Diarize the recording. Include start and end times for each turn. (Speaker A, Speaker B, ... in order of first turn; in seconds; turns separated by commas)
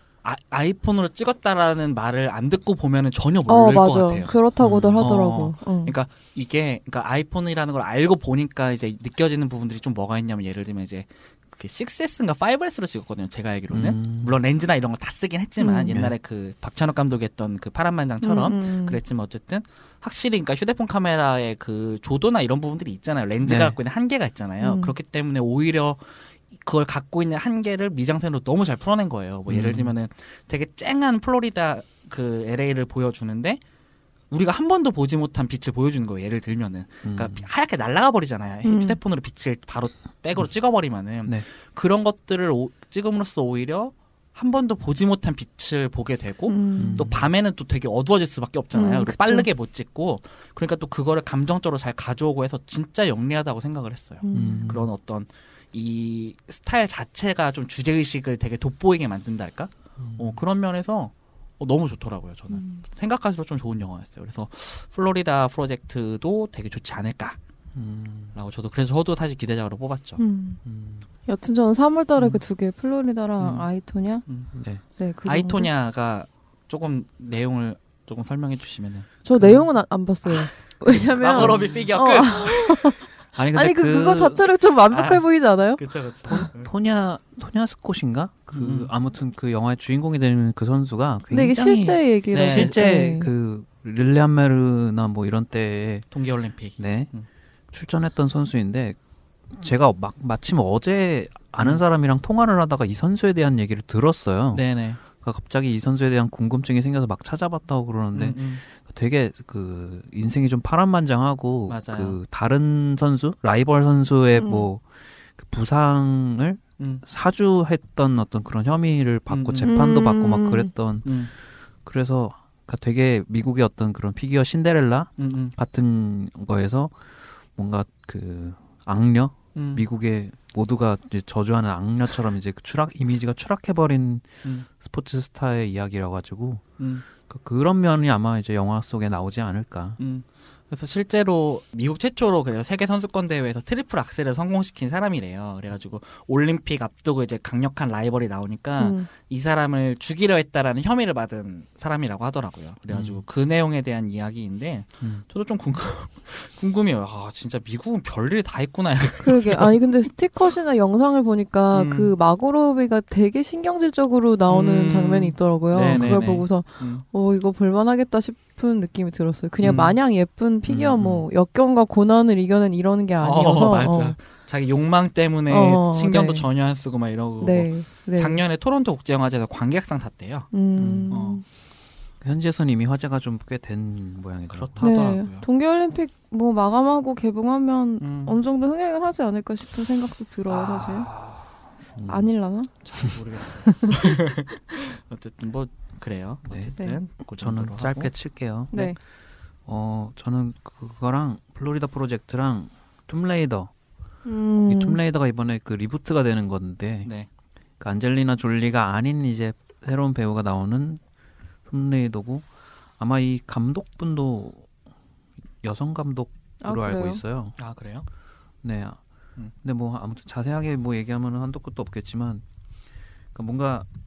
Speaker A: 0.2-4.3, Speaker B: 3.5-5.9, Speaker C: 4.6-5.1, Speaker A: 5.0-26.0, Speaker C: 13.7-14.3, Speaker B: 15.6-15.9, Speaker B: 18.2-19.0, Speaker C: 23.4-23.8, Speaker B: 24.6-24.9, Speaker A: 26.5-33.6, Speaker C: 29.5-29.9, Speaker A: 34.3-67.4, Speaker C: 37.0-37.4, Speaker B: 38.6-39.0, Speaker B: 46.5-47.1, Speaker C: 46.8-47.3, Speaker B: 48.7-49.5, Speaker B: 54.2-54.7, Speaker C: 54.3-54.9, Speaker C: 60.0-60.4, Speaker B: 62.5-62.8, Speaker C: 67.7-68.3, Speaker A: 68.3-70.2, Speaker B: 70.2-70.6, Speaker C: 70.6-71.0, Speaker B: 71.3-74.2, Speaker A: 73.4-73.7, Speaker C: 74.5-74.8, Speaker B: 75.0-75.7, Speaker A: 75.2-79.6, Speaker B: 79.2-83.0, Speaker A: 80.2-83.0, Speaker C: 81.4-81.7, Speaker C: 83.3-84.4, Speaker B: 83.5-86.5, Speaker A: 84.9-85.2, Speaker A: 85.8-86.7, Speaker C: 86.3-96.1, Speaker A: 88.5-88.9, Speaker B: 91.3-93.3, Speaker A: 92.3-92.8, Speaker A: 96.1-97.2, Speaker C: 96.8-97.1, Speaker C: 97.7-99.0, Speaker C: 99.5-114.8, Speaker A: 104.5-105.0, Speaker A: 108.1-108.6, Speaker A: 111.7-112.2, Speaker B: 114.4-114.7, Speaker C: 115.4-121.3, Speaker A: 116.8-117.0, Speaker A: 119.3-119.7, Speaker B: 119.6-120.7, Speaker A: 121.0-121.3, Speaker C: 121.8-127.0, Speaker A: 125.2-125.5, Speaker C: 127.5-136.6, Speaker A: 129.5-129.8, Speaker A: 136.8-137.1, Speaker C: 137.2-140.0, Speaker A: 140.0-159.7, Speaker B: 148.8-149.1, Speaker C: 152.9-153.2, Speaker B: 159.2-174.2, Speaker A: 161.7-162.1, Speaker A: 164.5-167.0, Speaker C: 165.9-166.2, Speaker A: 169.6-170.0, Speaker C: 170.7-171.2, Speaker A: 173.2-180.5, Speaker B: 175.5-176.4, Speaker B: 177.4-178.4, Speaker B: 180.5-181.4, Speaker C: 180.8-181.1, Speaker A: 181.1-181.4, Speaker C: 182.2-184.9, Speaker A: 184.5-185.4, Speaker B: 184.8-191.1, Speaker A: 188.0-188.4, Speaker A: 190.5-191.4, Speaker C: 191.9-192.3, Speaker B: 192.1-192.7, Speaker A: 192.8-198.1, Speaker B: 193.7-194.0, Speaker C: 197.2-199.0, Speaker B: 198.7-199.0, Speaker C: 199.7-203.7, Speaker B: 204.2-205.0, Speaker C: 204.7-207.1, Speaker C: 207.8-211.0, Speaker C: 211.7-214.7, Speaker C: 215.6-217.6, Speaker B: 216.6-217.2, Speaker A: 217.6-218.1, Speaker C: 218.6-219.0, Speaker C: 219.6-222.4, Speaker C: 223.3-223.9